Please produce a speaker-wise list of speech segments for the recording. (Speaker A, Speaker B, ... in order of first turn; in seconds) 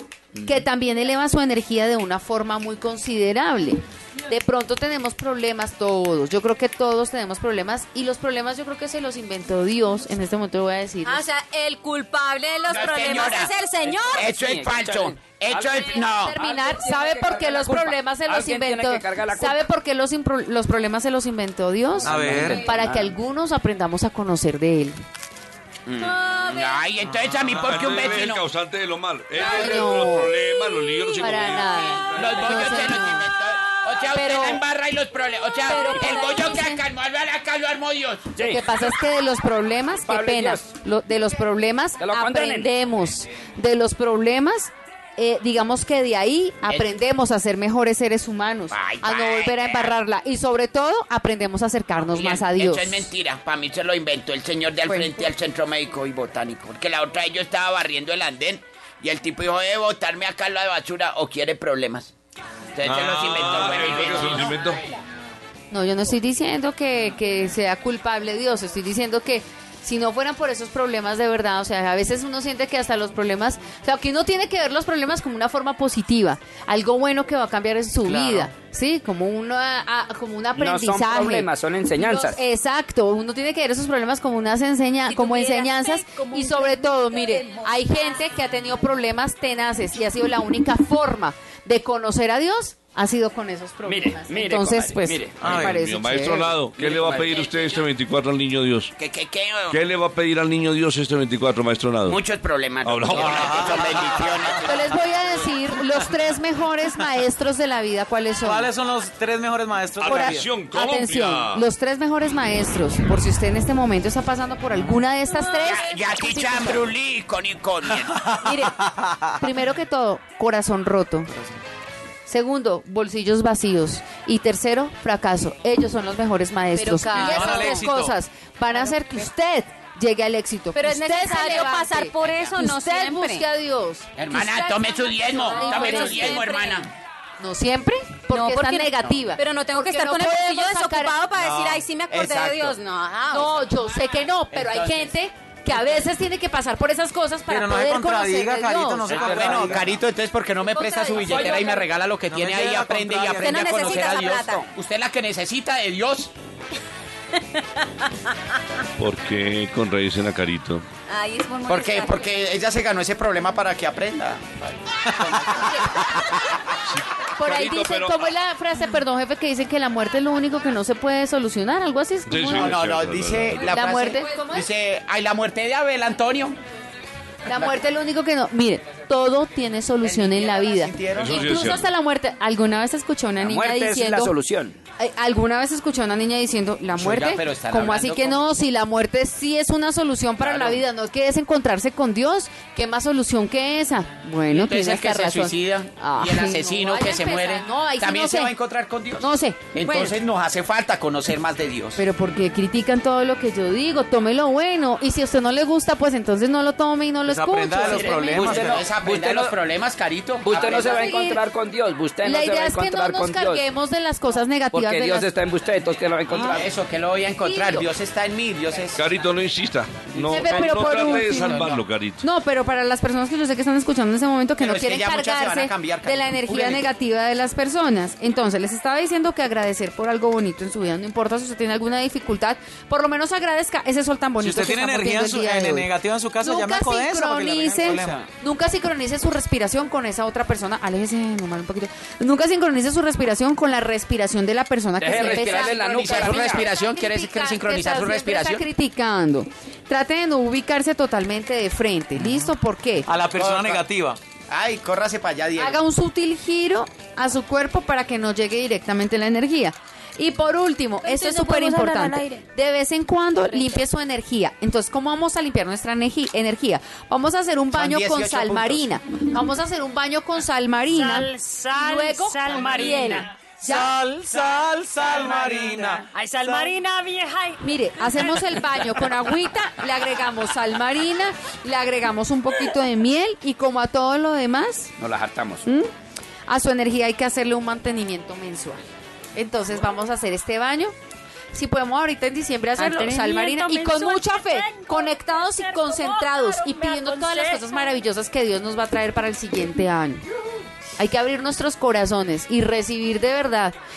Speaker A: 0.4-0.6, 13.7-19.6, 22.0-23.1, 38.4-38.6, 40.1-40.7, 42.0-42.7, 80.6-82.4, 93.9-95.4, 96.8-97.3, 183.4-184.8, 207.8-209.6, 210.4-213.7, 214.7-216.7, 245.0-246.7, 285.0-285.7
Speaker B: 0.4-11.3, 15.8-25.0, 29.4-30.3, 31.2-33.3, 34.2-34.5, 35.7-36.8, 38.4-53.1, 54.9-55.3, 65.7-96.6, 104.6-108.7, 110.1-116.8, 118.4-121.3, 122.3-136.5, 137.4-141.3, 143.3-149.8, 167.3-172.8, 173.6-174.4, 177.4-184.3, 185.0-198.5, 199.2-200.2, 202.0-208.7, 210.6-211.4, 212.2-215.3, 216.3-216.6, 217.4-217.9, 220.3-253.1, 255.6-274.0, 277.6-284.9, 286.5-288.8, 289.3-290.9, 291.5-300.2, 301.0-303.8
Speaker C: 11.1-14.4, 26.3-26.7, 34.2-34.6, 35.7-36.5, 85.1-88.0, 126.7-127.9, 130.7-133.5, 135.3-136.9, 138.3-143.7, 149.3-149.5, 150.6-151.9, 153.4-154.7, 161.1-162.6, 173.9-174.6, 261.0-262.4, 263.5-263.8
Speaker D: 12.7-13.6, 14.1-16.4, 25.9-28.4, 32.1-38.4, 48.7-49.9, 52.0-62.1, 62.8-64.6, 97.3-97.9, 99.0-99.8, 102.1-105.0, 115.6-118.4, 134.2-136.9, 142.1-142.8, 144.5-145.1, 149.1-156.3, 161.7-166.3, 172.5-176.6, 180.0-181.6, 186.9-188.4, 190.4-190.8, 194.5-202.0, 208.3-211.2, 216.5-219.0, 220.1-221.8, 224.6-226.8, 245.1-248.6, 253.2-253.8, 254.5-255.8, 267.7-268.8
Speaker E: 22.1-22.6, 78.0-78.5, 95.4-95.8, 103.2-104.2, 108.4-110.5, 127.2-128.2, 141.4-141.8, 147.5-150.0, 152.3-153.6, 207.3-208.9, 234.4-238.3, 253.1-254.2, 273.6-276.8
Speaker F: 27.5-32.9, 63.0-64.8, 95.5-98.9, 99.7-102.2, 102.8-103.7, 110.0-111.7, 159.0-160.9, 166.8-168.3, 172.3-173.8, 181.2-181.9, 219.0-222.2
Speaker G: 271.0-273.3, 276.1-277.6, 292.8-297.9